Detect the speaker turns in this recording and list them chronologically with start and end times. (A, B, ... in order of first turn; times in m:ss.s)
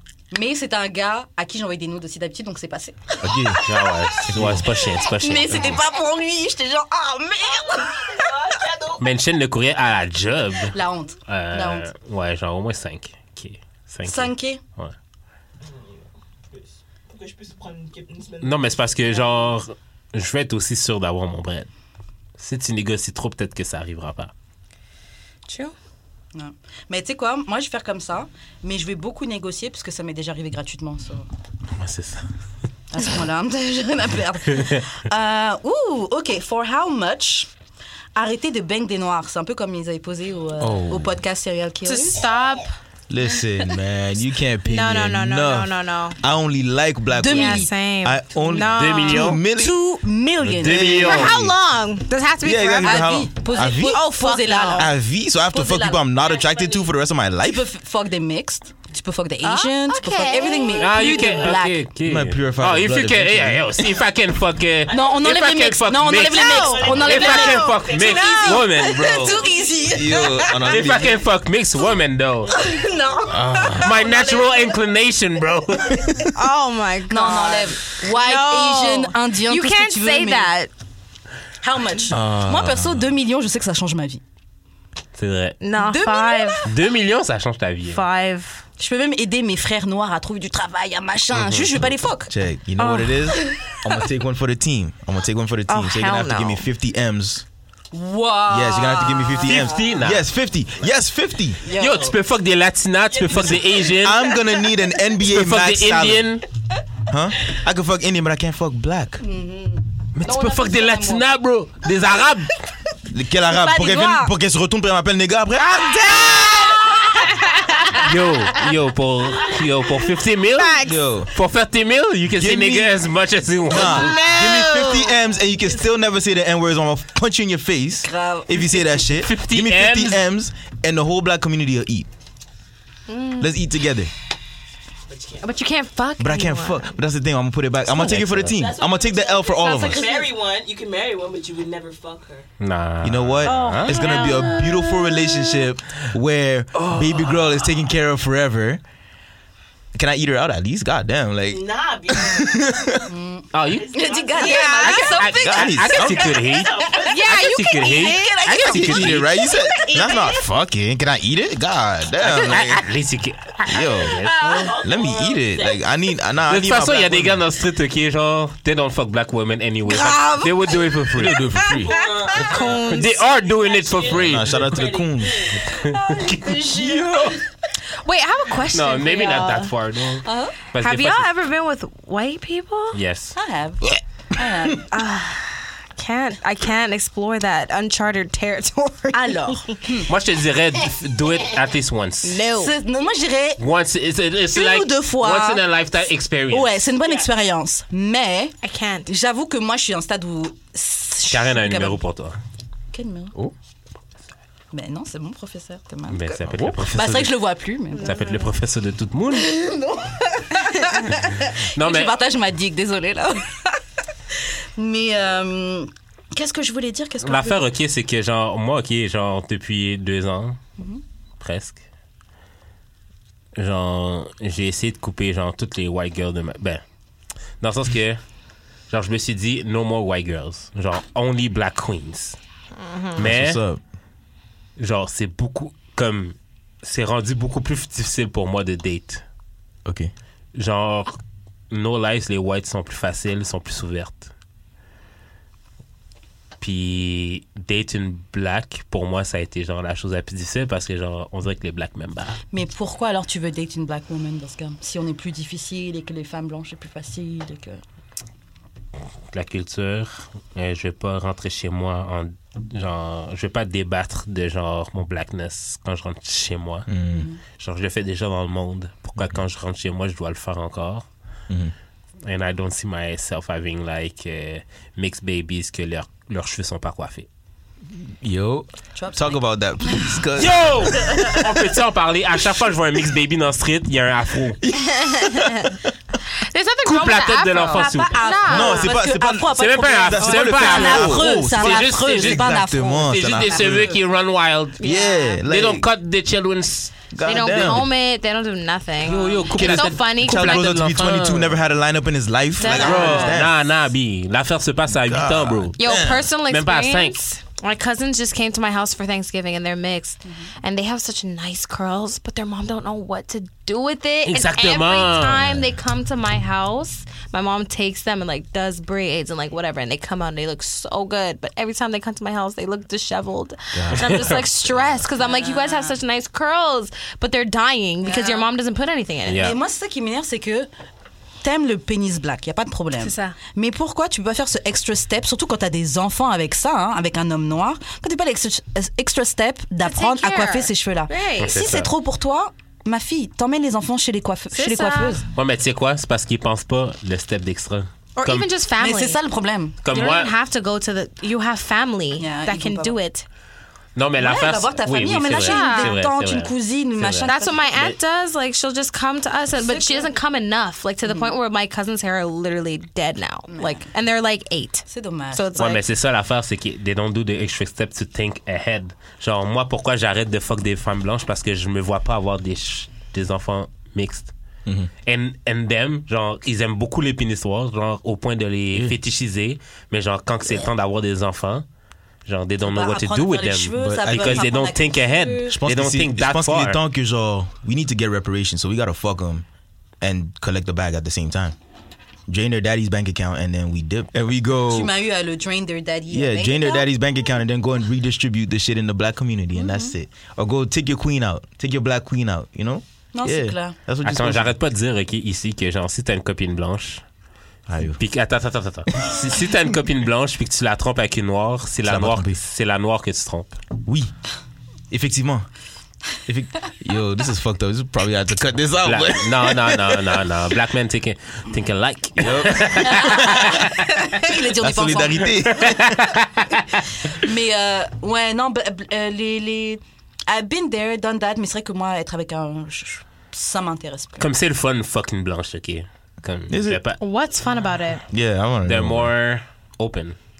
0:00.3-0:08.4 A
0:03.2-0:03.6 B
0:03.6-0:05.8 C
0:04.2-0:04.7 B
0:07.4-0:09.1 D
0:09.0-0:10.7 C
0:10.7-0:11.9 A
0:11.3-0:14.9 C
0:14.0-0:14.6 A
0:15.6-0:19.6 D
0:18.4-0:21.7 C
0:22.4-0:24.3 C
0:25.5-0:25.7 E
0:26.3-0:31.2 A
0:31.8-0:32.3 C
0:32.9-0:37.5 A
0:34.5-0:34.8 C
0:38.2-0:42.2 A
0:40.6-0:41.2 B
0:41.8-0:42.7 E
0:43.1-0:49.7 B
0:44.6-0:46.2 E
0:47.1-0:47.7 A
0:47.3-0:49.3 E
0:48.7-0:49.4 C
0:49.2-0:51.2 A
0:50.4-0:51.6 B
0:50.6-0:51.3 C
0:51.0-0:54.9 E
0:52.4-0:54.0 B
0:52.8-0:54.9 A
0:54.7-0:57.7 B
0:55.5-0:56.0 A
0:56.0-0:56.9 D
0:57.4-1:01.8 A
0:59.4-1:01.3 E
1:00.7-1:09.3 C
1:01.0-1:01.5 D
1:02.0-1:03.9 B
1:04.9-1:05.2 D
1:04.9-1:10.8 A
1:06.1-1:08.8 E
1:06.5-1:10.0 D
1:08.9-1:11.2 B
1:10.6-1:12.6 C
1:12.5-1:13.2 D
1:12.6-1:14.3 A
1:13.3-1:14.0 B
1:13.7-1:16.2 C
1:16.3-1:20.7 E
1:17.1-1:20.5 A
1:21.6-1:24.2 A
1:22.1-1:23.0 B
1:25.1-1:25.6 C
1:25.6-1:26.7 E
1:25.8-1:26.7 A
1:26.6-1:28.0 C
1:27.9-1:28.6 E
1:28.8-1:32.3 A
1:31.3-1:31.7 C
1:31.8-1:37.4 B
1:32.8-1:33.5 E
1:33.4-1:33.8 A
1:35.7-1:36.6 E
1:37.9-1:39.9 A
1:38.5-1:41.6 B
1:39.4-1:40.2 C
1:41.6-1:42.0 A
1:41.7-1:42.1 D
1:41.7-1:44.3 C
1:43.1-1:44.0 D
1:43.3-1:46.3 B
1:45.2-1:46.4 C
1:47.1-1:49.2 B
1:49.2-1:51.2 A
1:50.1-1:52.5 C
1:53.1-1:56.7 B
1:53.5-1:54.3 A
1:55.9-1:57.3 A
1:57.2-1:58.0 E
1:57.9-2:00.8 C
2:00.5-2:01.1 E
2:00.8-2:01.3 B
2:01.3-2:04.1 C
2:02.4-2:03.0 B
2:03.6-2:12.1 B
2:03.8-2:05.0 E
2:04.4-2:04.9 A
2:08.0-2:08.9 A
2:09.2-2:10.2 C
2:13.1-2:13.5 E
2:13.4-2:14.1 B
2:15.1-2:15.5 D
2:15.4-2:17.0 E
2:16.2-2:20.1 B
2:18.0-2:18.6 C
2:18.5-2:22.5 D
2:19.6-2:20.3 A
2:22.6-2:24.0 C
2:23.0-2:28.8 B
2:23.4-2:25.6 E
2:29.9-2:33.1 B
2:31.5-2:32.5 D
2:33.1-2:40.2 A
2:33.5-2:33.9 C
2:33.7-2:35.1 D
2:34.4-2:35.2 E
2:34.8-2:36.7 C
2:35.3-2:36.4 B
2:36.3-2:37.3 D
2:37.1-2:38.8 E
2:37.2-2:39.3 C
2:38.7-2:42.8 B
2:39.4-2:40.3 E
2:42.2-2:44.7 C
2:43.7-2:44.2 B
2:44.4-2:45.8 D
2:44.8-2:47.4 B
2:46.5-2:51.4 C
2:50.0-2:50.5 A
2:51.1-2:51.9 B
2:51.7-2:55.7 D
2:52.3-2:53.2 E
2:52.8-2:54.7 C
2:54.1-2:55.5 B
2:55.6-2:57.3 C
2:55.8-2:57.4 A
2:56.8-2:57.3 B
2:58.0-2:59.7 E
2:58.7-3:01.3 C
3:00.2-3:00.6 A
3:00.8-3:03.0 E
3:02.9-3:03.4 C
3:03.3-3:05.2 A
3:04.9-3:09.8 E
3:09.1-3:10.1 A
3:10.0-3:12.4 C
3:12.2-3:12.7 E
3:12.6-3:13.6 A
3:13.6-3:16.9 C
3:14.5-3:15.6 A
3:16.5-3:22.0 A
3:18.6-3:19.1 E
3:21.3-3:22.4 C
3:22.9-3:23.3 A
3:24.7-3:28.2 A
3:26.1-3:27.4 C
3:26.5-3:26.8 B
3:27.9-3:28.5 E
3:28.0-3:29.5 C
3:29.4-3:33.8 A
3:30.6-3:31.1 E
3:31.6-3:32.1 C
3:34.3-3:37.7 A
3:37.2-3:40.6 C
3:41.4-3:41.8 C
3:43.6-3:46.8 C
3:47.6-3:48.2 C
3:48.9-3:52.4 C
3:52.8-3:53.2 E
3:53.1-3:53.6 C
3:53.2-3:53.8 B
3:54.8-3:59.2 C
3:59.8-4:00.1 B
4:00.5-4:01.2 C
4:01.7-4:04.3 C
4:06.6-4:12.4 C
4:12.5-4:17.8 A
4:19.3-4:26.9 C
4:26.9-4:27.3 B
4:27.1-4:27.4 A
4:27.6-4:31.1 C
4:32.2-4:37.3 C
4:37.9-4:41.4 B
4:38.9-4:40.2 A
4:40.4-4:44.6 C
4:44.6-4:45.7 B
4:44.9-4:45.7 E
4:46.4-4:48.9 E
4:46.8-4:48.3 C
4:47.7-4:53.1 A
4:48.5-4:54.0 B
4:49.5-4:57.0 C
4:50.2-4:51.1 E
4:54.8-4:55.4 E
4:54.8-4:55.9 B
4:57.1-4:57.9 B
4:57.2-5:00.8 E
4:59.0-5:01.6 C
4:59.5-5:03.6 B
5:02.6-5:03.4 E
5:02.6-5:03.3 A
5:02.7-5:05.8 C
5:04.9-5:06.3 B
5:05.8-5:29.5 E
5:06.4-5:07.2 C
5:14.2-5:15.5 C
5:15.4-5:15.6 B
5:23.7-5:24.4 B
5:23.9-5:24.4 C
5:25.2-5:26.0 A
5:28.0-5:28.5 A
5:29.2-5:29.6 C
5:29.4-5:30.7 A
5:31.4-5:45.2 A
5:33.0-5:33.4 E
5:39.8-5:41.6 E
5:41.4-5:41.9 C
5:44.5-5:45.2 E
5:45.3-5:48.5 C
5:48.2-5:49.2 E
5:48.8-5:49.8 A
5:49.8-5:50.3 C
5:49.9-5:53.2 E
5:52.2-5:53.0 A
5:54.0-5:58.0 C
5:54.2-5:57.8 A
5:55.3-5:55.9 E
5:57.3-6:05.8 E
5:59.6-6:00.2 A
6:01.0-6:01.4 A
6:03.5-6:03.8 A
6:04.9-6:05.8 A
6:05.6-6:14.3 C
6:14.6-6:14.9 B
6:15.0-6:21.6 C
6:22.2-6:26.8 C
6:22.6-6:25.6 A
6:23.8-6:24.5 B
6:25.5-6:29.4 B
6:30.0-6:31.6 B
6:32.3-6:34.9 B
6:34.7-6:36.8 A
6:36.1-6:44.6 B
6:39.6-6:39.9 A
6:43.1-6:43.8 A
6:44.0-6:47.0 C
6:47.7-6:48.0 B
6:48.0-6:53.6 C
6:51.8-6:52.4 B
6:53.8-6:54.1 B
6:54.9-6:55.4 B
6:56.2-7:00.2 B
6:58.8-7:03.9 C
7:02.2-7:03.6 B
7:02.9-7:05.5 A
7:04.3-7:06.1 B
7:05.5-7:06.7 C
7:07.0-7:14.2 A
7:14.2-7:17.0 C
7:16.5-7:16.8 B
7:17.0-7:18.0 E
7:18.1-7:19.1 B
7:18.6-7:20.2 C